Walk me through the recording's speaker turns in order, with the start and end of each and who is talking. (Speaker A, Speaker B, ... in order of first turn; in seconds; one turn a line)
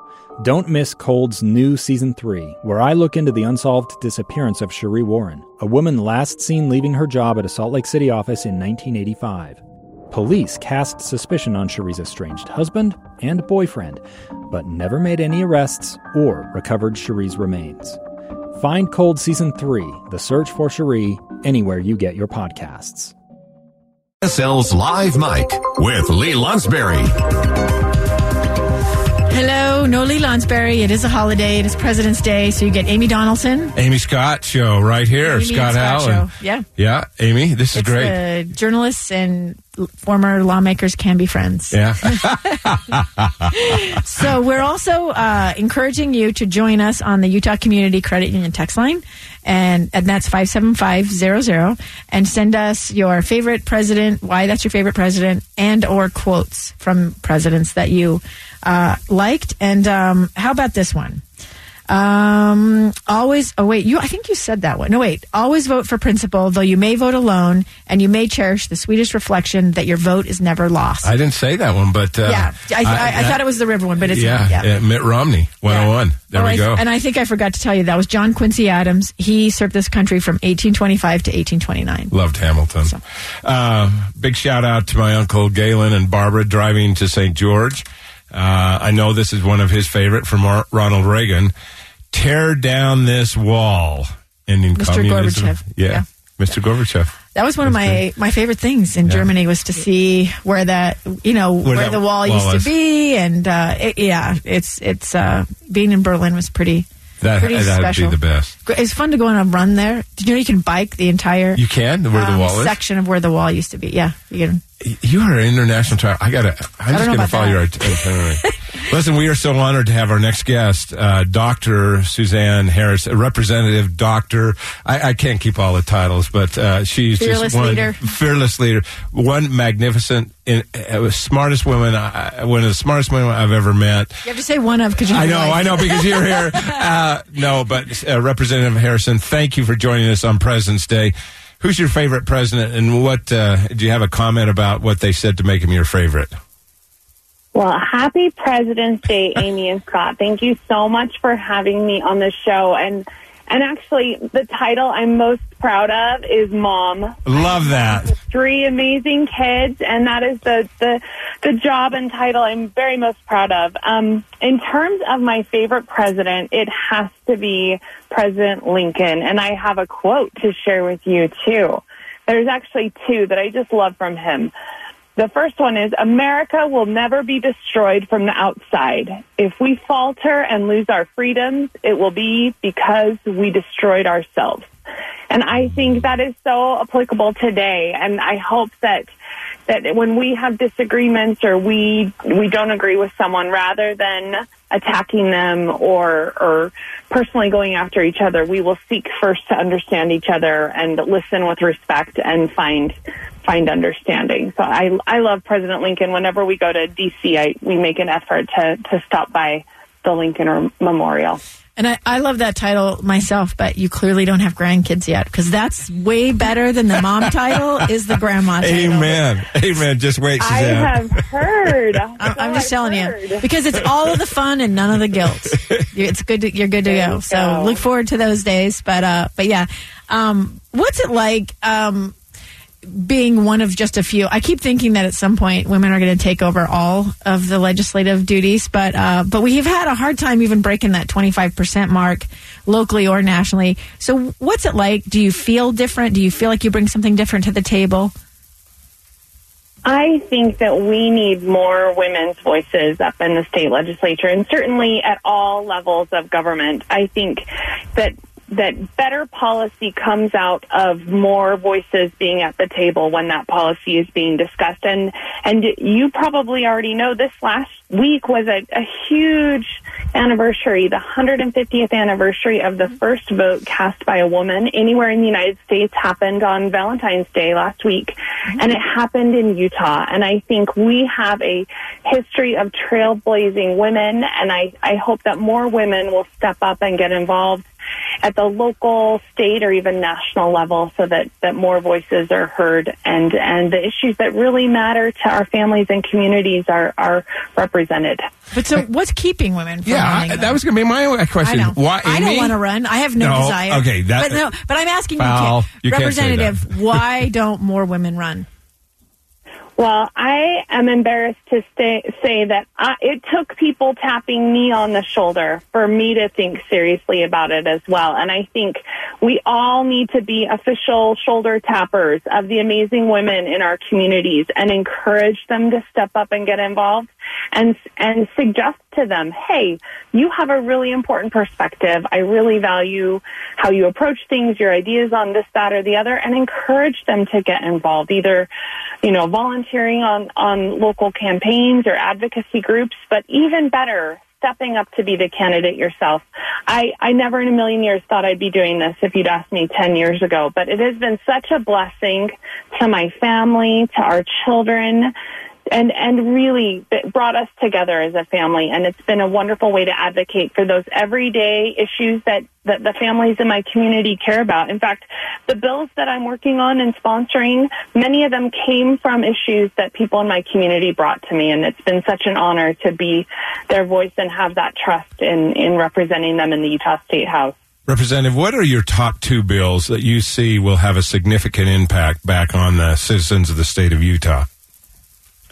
Speaker A: 0.4-18.0
Speaker A: 18.5-23.1
Speaker B: 24.2-27.1
Speaker C: 29.3-33.7
Speaker D: 33.7-38.1
Speaker C: 35.2-36.6
Speaker C: 37.7-42.2
Speaker D: 41.7-43.5
Speaker C: 43.5-61.2
Speaker C: 61.9-71.1
Speaker D: 71.0-73.4
Speaker C: 72.2-74.7
Speaker D: 74.0-76.8
Speaker C: 75.7-82.1
Speaker D: 82.1-91.5
Speaker D: 92.1-98.0
Speaker C: 94.7-96.0
Speaker C: 97.3-106.9
Speaker D: 101.6-102.7
Speaker D: 107.2-108.5
Speaker C: 107.4-111.6
Speaker D: 111.5-112.8
Speaker C: 112.1-114.6
Speaker D: 114.8-134.1
Speaker C: 116.9-118.5
Speaker C: 127.2-128.0
Speaker C: 134.2-136.7
Speaker D: 135.1-146.3
Speaker E: 147.5-174.5
Speaker D: 157.3-158.1
Speaker E: 175.2-184.7
Speaker E: 185.3-189.1
Speaker E: 189.7-211.4
Speaker C: 211.8-219.2
Speaker D: 218.6-221.2
Speaker E: 220.4-223.4
Speaker C: 222.2-232.1
Speaker E: 226.8-227.8
Speaker C: 232.8-248.1
Speaker E: 249.8-287.6
Speaker E: 288.2-298.2
Speaker C: 298.5-300.6
Speaker D: 299.8-302.6
Speaker C: 301.4-308.5
Speaker D: 303.2-304.5
Speaker D: 305.2-307.0
Speaker E: 309.8-338.5
Speaker E: 339.0-355.1
Speaker E: 355.7-377.5
Speaker D: 377.9-384.5